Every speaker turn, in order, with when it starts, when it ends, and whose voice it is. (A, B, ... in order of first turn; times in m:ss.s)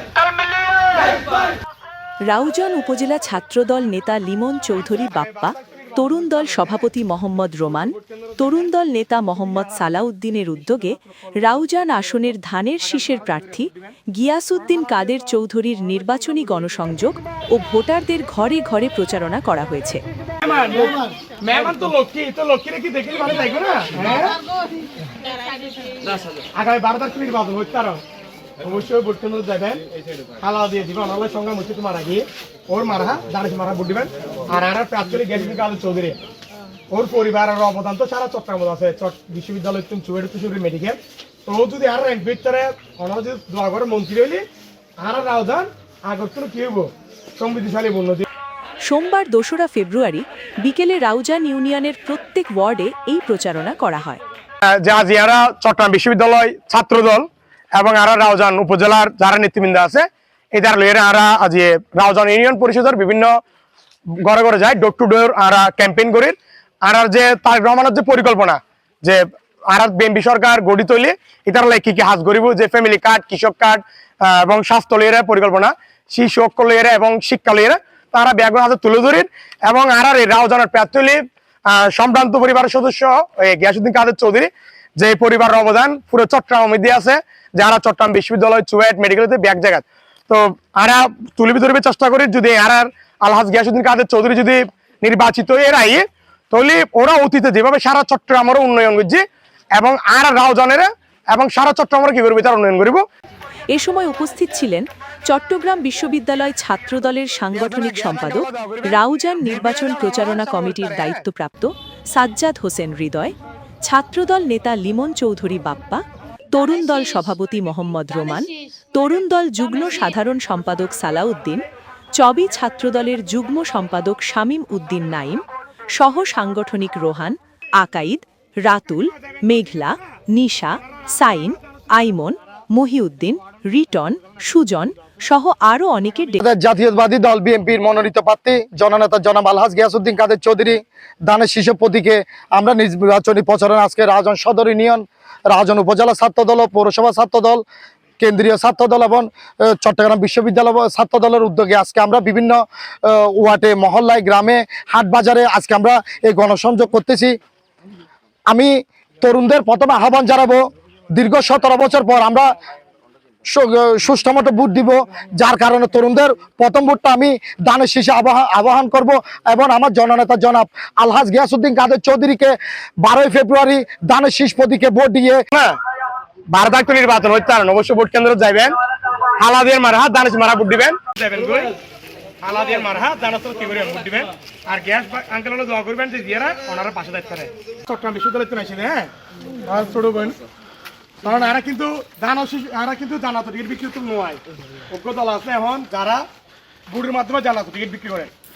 0:02.2-0:20.0 A
0:20.4-0:24.4 B
0:26.6-0:28.0 B
0:28.6-0:29.8 B
0:30.4-0:36.2 B
0:36.9-0:44.4 B
0:45.0-0:48.3 B
0:48.8-0:54.2 A
0:54.8-1:03.4 B
1:04.2-1:39.2 B
1:39.8-1:43.0 B
1:43.7-1:53.4 A
1:47.5-1:51.2 B
1:53.9-2:01.6 A
2:02.2-2:05.4 A
2:06.0-2:16.4 A
2:16.4-2:27.6 C
2:28.2-2:37.4 C
2:38.5-2:42.5 C
2:43.5-2:55.4 C
2:56.5-2:58.7 B
2:59.4-3:01.7 B
3:02.4-3:09.1 B
3:09.7-3:10.4 B
3:11.2-3:16.2 B
3:16.9-3:18.3 B